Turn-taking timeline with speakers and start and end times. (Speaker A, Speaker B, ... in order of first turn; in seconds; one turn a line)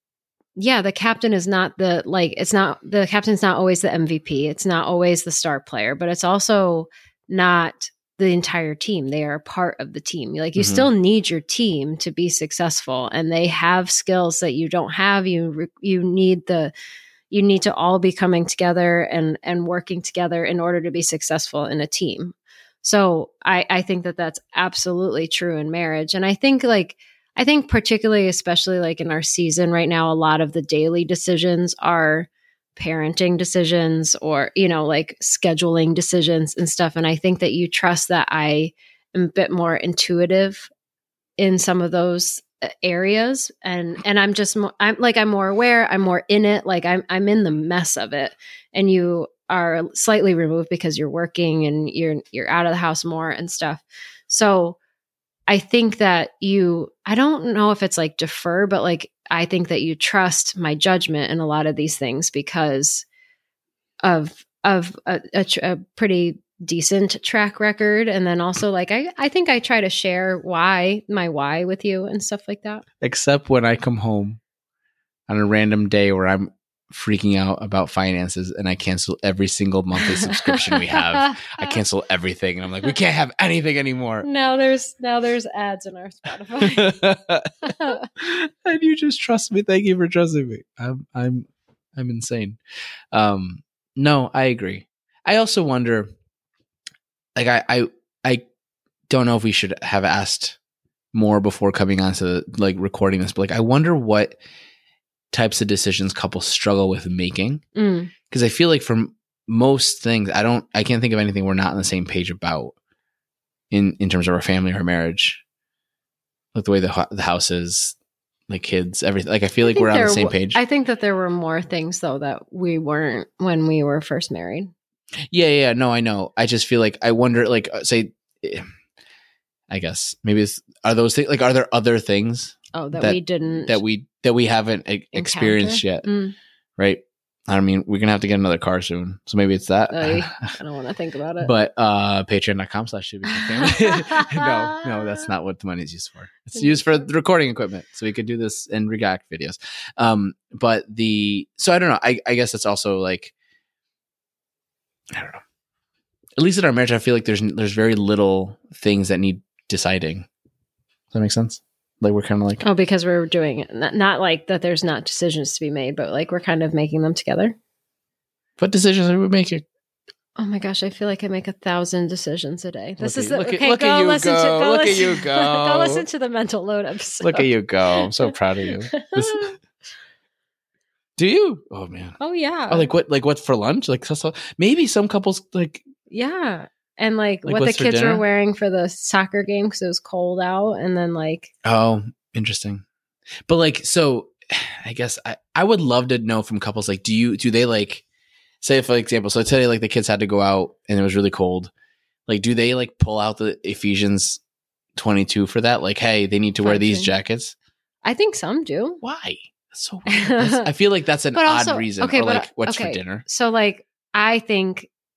Speaker A: 0.6-16.7
Speaker B: 10.6-10.9
Speaker A: 17.3-40.7
Speaker A: 41.4-54.8
Speaker A: 55.5-63.0
Speaker A: 64.0-72.8
Speaker B: 73.0-74.4
Speaker B: 75.3-84.2
Speaker A: 80.3-81.3
Speaker A: 84.2-87.0
Speaker B: 86.6-92.6
Speaker A: 87.6-88.1
Speaker B: 93.1-96.1
Speaker B: 97.3-98.5
Speaker B: 99.1-100.6
Speaker B: 101.1-104.4
Speaker B: 105.3-107.6
Speaker A: 107.7-108.1
Speaker B: 108.3-112.7
Speaker B: 113.7-115.4
Speaker B: 116.5-118.0
Speaker B: 118.5-120.6
Speaker A: 119.6-124.7
Speaker B: 125.3-128.7
Speaker B: 129.7-136.1
Speaker A: 132.7-133.8
Speaker A: 135.1-136.3
Speaker B: 136.8-140.4
Speaker A: 139.9-141.5
Speaker B: 141.4-153.3
Speaker A: 143.7-144.4
Speaker A: 146.6-146.8
Speaker B: 155.1-155.4
Speaker B: 156.4-160.3
Speaker B: 161.1-162.6
Speaker A: 162.6-167.6
Speaker B: 168.6-169.6
Speaker A: 170.4-178.1
Speaker B: 173.0-176.0
Speaker B: 177.2-179.5
Speaker A: 178.9-179.6
Speaker B: 181.2-182.2
Speaker A: 182.2-182.9
Speaker B: 182.7-185.8
Speaker A: 186.1-191.5
Speaker B: 187.4-188.2
Speaker B: 191.6-192.8
Speaker B: 193.4-198.0
Speaker B: 198.6-201.7
Speaker B: 202.3-204.4
Speaker B: 204.9-207.5
Speaker A: 206.6-207.1
Speaker A: 208.0-209.0
Speaker B: 209.0-213.2
Speaker A: 210.1-210.7
Speaker A: 211.3-214.9